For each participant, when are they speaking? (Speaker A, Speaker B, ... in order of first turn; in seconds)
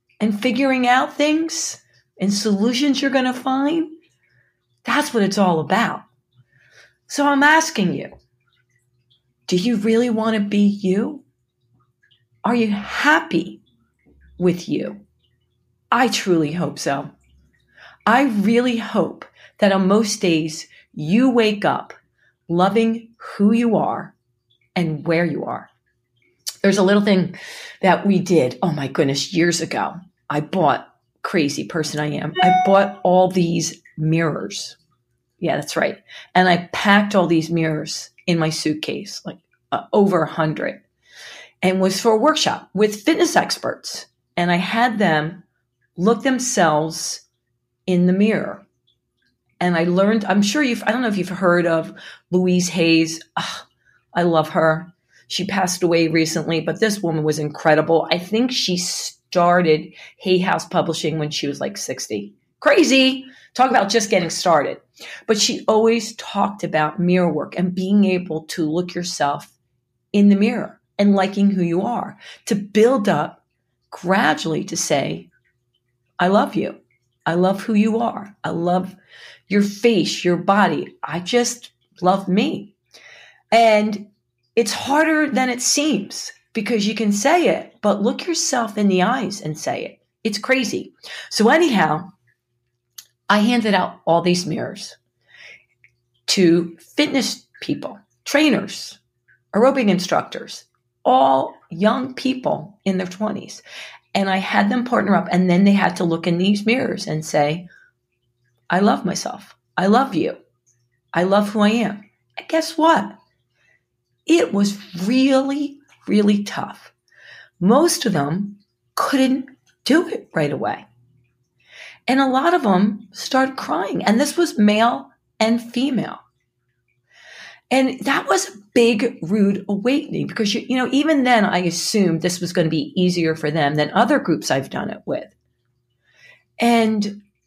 Speaker A: 0.2-3.9, 4.8-6.0, 7.1-8.1, 9.5-11.2, 12.4-13.6, 14.4-15.0, 15.9-17.1, 18.1-21.9, 22.5-24.1, 24.8-25.7, 26.6-34.8, 35.4-40.8, 41.6-45.5, 46.0-47.2, 47.9-48.7, 49.6-69.5, 70.1-75.3, 76.2-79.0, 79.5-82.8, 83.5-92.1, 93.3-95.0, 96.3-99.0, 99.5-103.6, 104.1-107.7, 108.7-110.4, 111.1-113.2, 114.3-116.9, 117.6-120.8, 122.1-126.2, 127.7-135.3, 136.6-137.2